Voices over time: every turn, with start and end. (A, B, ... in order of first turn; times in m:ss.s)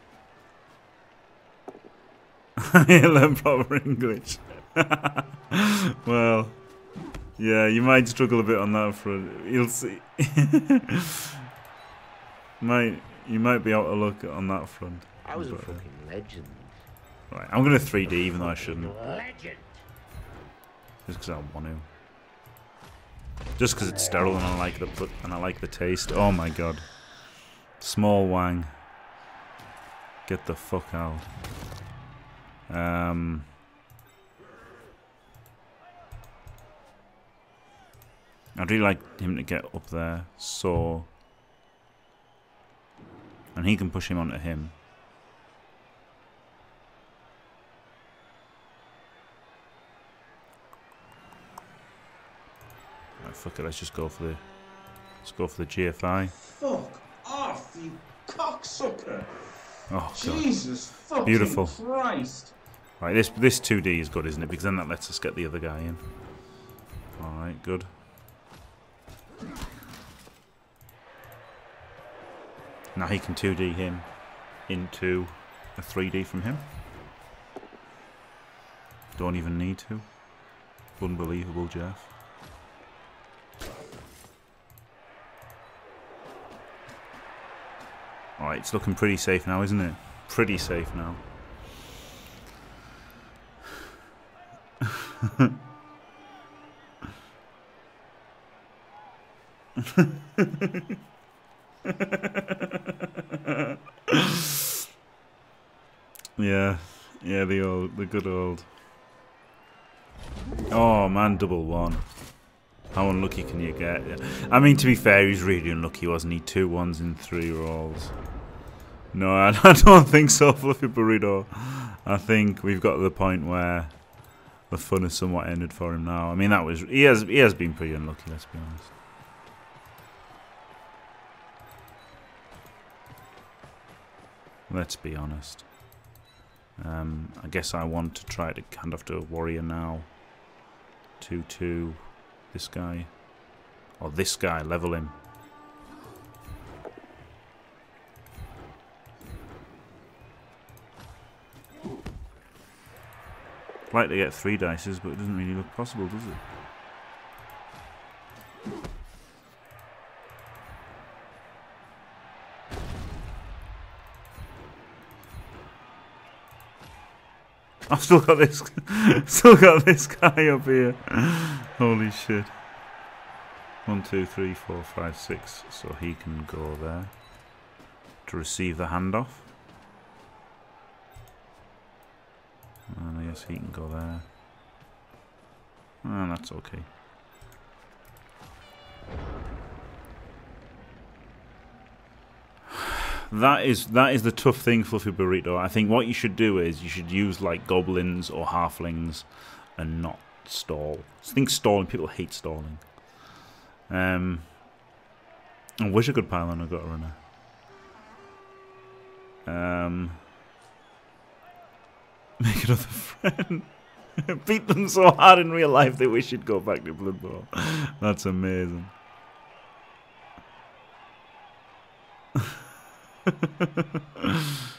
0:02.6-0:11.0 A
0:12.6-0:15.8 A
0:15.2-0:16.8 B
0:17.3-0:19.0 A
0:18.6-0:19.6 B
0:21.0-0:21.8 A
0:23.6-0:28.7 A
0:30.2-0:31.3 A
0:32.7-0:33.5 A
0:38.6-0:41.1 A
0:43.5-0:44.8 A
0:53.2-0:56.3 A
0:56.4-0:59.3 C
0:59.9-1:01.8 A
1:00.1-1:02.6 C
1:03.0-1:06.1 A
1:07.2-1:07.9 A
1:12.9-1:16.7 A
1:19.2-1:22.1 A
1:28.4-1:31.2 A
1:35.2-1:35.5 A
1:40.0-1:40.8 A
1:41.9-1:42.6 A
1:43.4-1:44.4 A
1:46.4-1:48.7 A
1:50.7-1:52.0 A
1:52.9-1:58.2 A
1:59.1-2:08.9 A
2:14.7-2:16.0 A
2:16.8-2:20.2 A
2:21.2-2:25.2 A
2:33.9-2:36.4 A
2:47.9-2:52.6 A
2:53.8-2:57.2 A
2:58.2-2:59.5 A
3:02.9-3:04.3 A
3:06.0-3:06.9 A
3:12.8-3:23.3 A
3:23.9-3:24.6 A
3:25.8-3:27.2 A
3:29.4-3:30.2 A
3:32.4-3:38.9 A
3:43.3-3:43.7 A